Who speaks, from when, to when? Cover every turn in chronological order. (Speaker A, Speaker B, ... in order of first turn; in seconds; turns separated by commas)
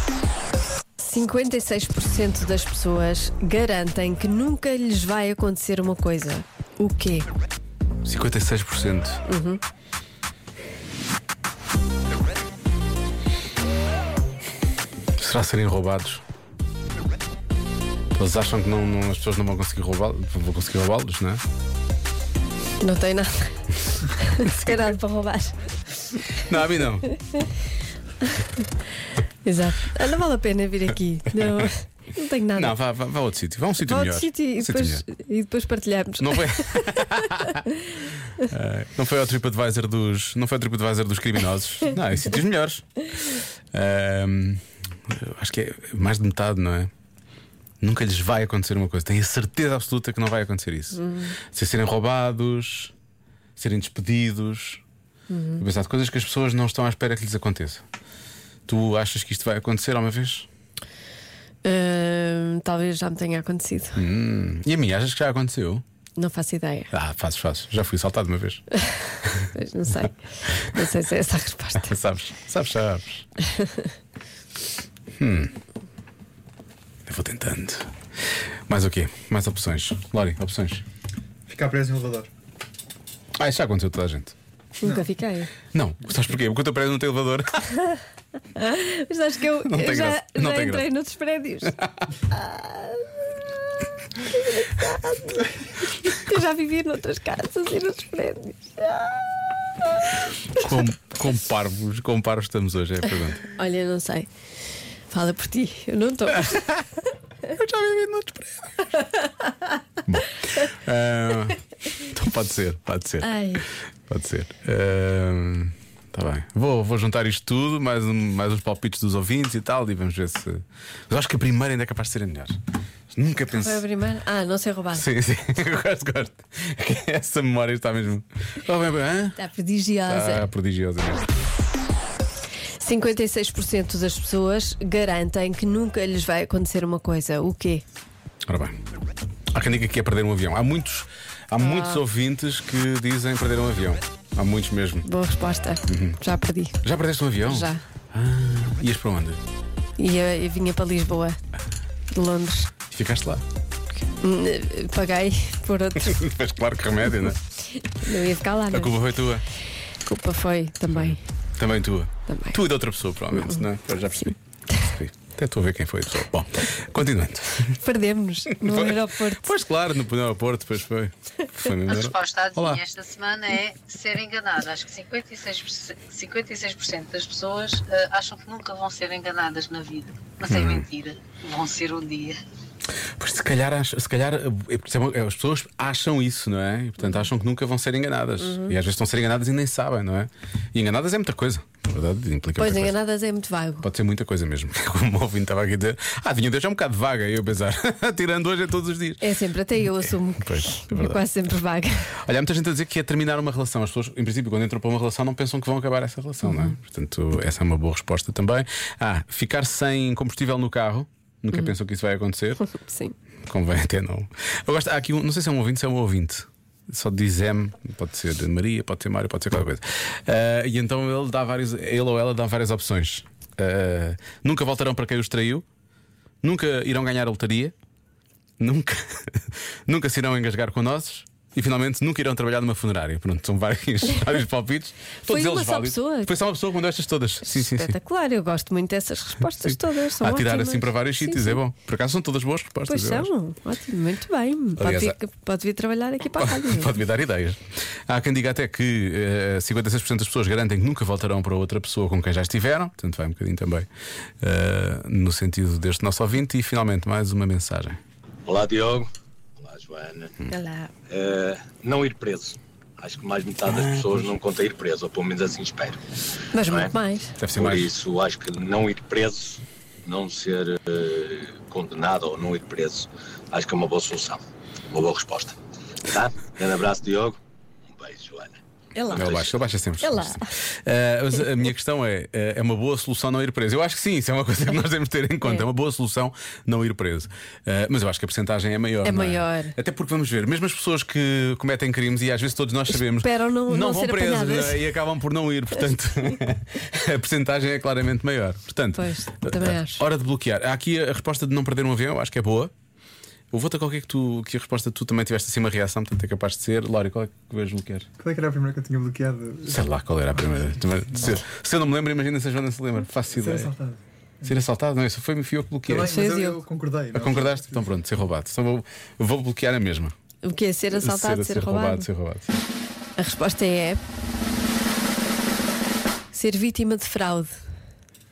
Speaker A: 1.0-7.3, Speaker B: 8.0-9.2, Speaker A: 9.3-9.6, Speaker B: 15.2-16.2, Speaker B: 18.1-21.4, Speaker A: 22.8-26.2, Speaker B: 26.4-27.1, Speaker A: 29.4-32.7, Speaker B: 32.6-35.0, Speaker A: 33.8-37.0, Speaker B: 36.2-37.6, Speaker B: 38.5-43.1, Speaker B: 43.7-46.9, Speaker B: 47.8-51.0, Speaker A: 50.9-51.3, Speaker B: 51.5-52.9, Speaker B: 53.6-54.8, Speaker A: 55.3-55.6, Speaker B: 55.6-57.8, Speaker B: 58.7-60.5, Speaker A: 61.6-64.0, Speaker B: 64.0-65.8, Speaker A: 66.2-66.9, Speaker B: 66.9-68.6, Speaker A: 69.5-71.9, Speaker B: 71.8-73.2, Speaker B: 75.2-75.5, Speaker B: 77.1-77.9, Speaker B: 78.7-80.8, Speaker C: 81.5-82.3, Speaker B: 83.4-84.3, Speaker A: 84.8-85.5, Speaker B: 85.7-87.7, Speaker A: 88.5-91.7, Speaker B: 89.7-90.9, Speaker A: 92.3-93.1, Speaker A: 94.2-95.5, Speaker A: 96.0-99.2, Speaker B: 100.6-103.4, Speaker A: 103.4-104.3, Speaker A: 105.1-106.8, Speaker B: 107.5-108.7, Speaker B: 110.0-113.3, Speaker A: 113.2-113.6, Speaker B: 114.1-122.6, Speaker B: 123.1-123.8, Speaker A: 123.5-125.0, Speaker B: 124.9-129.4, Speaker A: 129.4-130.5, Speaker B: 130.1-131.2, Speaker A: 132.8-137.8, Speaker B: 138.5-138.8, Speaker B: 139.5-145.1, Speaker A: 141.6-142.0, Speaker A: 145.0-146.8, Speaker B: 145.9-146.2, Speaker B: 146.8-149.4, Speaker A: 147.4-147.8, Speaker A: 150.0-151.4, Speaker A: 152.1-152.7, Speaker B: 152.9-153.4, Speaker A: 154.0-156.2, Speaker B: 156.0-157.4, Speaker A: 157.8-158.9, Speaker B: 158.7-159.4, Speaker A: 160.0-161.2, Speaker B: 160.9-167.8, Speaker A: 162.3-162.6, Speaker A: 167.8-169.5, Speaker B: 168.6-172.8, Speaker D: 171.9-182.4, Speaker B: 180.4-180.9, Speaker B: 183.2-192.9, Speaker A: 188.4-188.7, Speaker A: 192.6-193.9, Speaker B: 193.8-199.2, Speaker A: 199.2-202.0, Speaker B: 200.4-201.2, Speaker B: 202.3-212.6, Speaker A: 206.4-206.7, Speaker A: 212.7-213.1, Speaker B: 213.5-225.6, Speaker B: 226.4-227.7, Speaker B: 228.6-237.9, Speaker A: 235.3-236.3, Speaker A: 237.4-241.6, Speaker B: 239.6-243.3, Speaker A: 242.9-246.9, Speaker B: 244.8-245.1, Speaker B: 246.4-253.9, Speaker B: 254.4-258.0, Speaker E: 258.5-260.3, Speaker A: 260.5-260.9, Speaker E: 261.1-266.0, Speaker B: 263.7-264.4, Speaker A: 266.5-267.3, Speaker E: 266.6-266.9, Speaker B: 267.4-267.9, Speaker E: 267.5-275.6, Speaker E: 276.1-277.4, Speaker E: 277.9-278.6, Speaker A: 278.9-279.5, Speaker B: 279.1-302.7, Speaker E: 279.1-279.6, Speaker A: 280.0-280.4, Speaker A: 289.0-289.7, Speaker A: 293.0-294.8, Speaker A: 298.9-300.0, Speaker B: 303.5-308.1, Speaker C: 308.2-309.8, Speaker B: 309.7-313.7, Speaker C: 313.3-314.5, Speaker B: 314.4-316.1, Speaker C: 315.9-317.9, Speaker A: 316.0-316.6, Speaker B: 317.1-320.1, Speaker A: 320.4-322.1, Speaker B: 320.9-322.6, Speaker A: 323.2-324.0, Speaker A: 326.3-327.6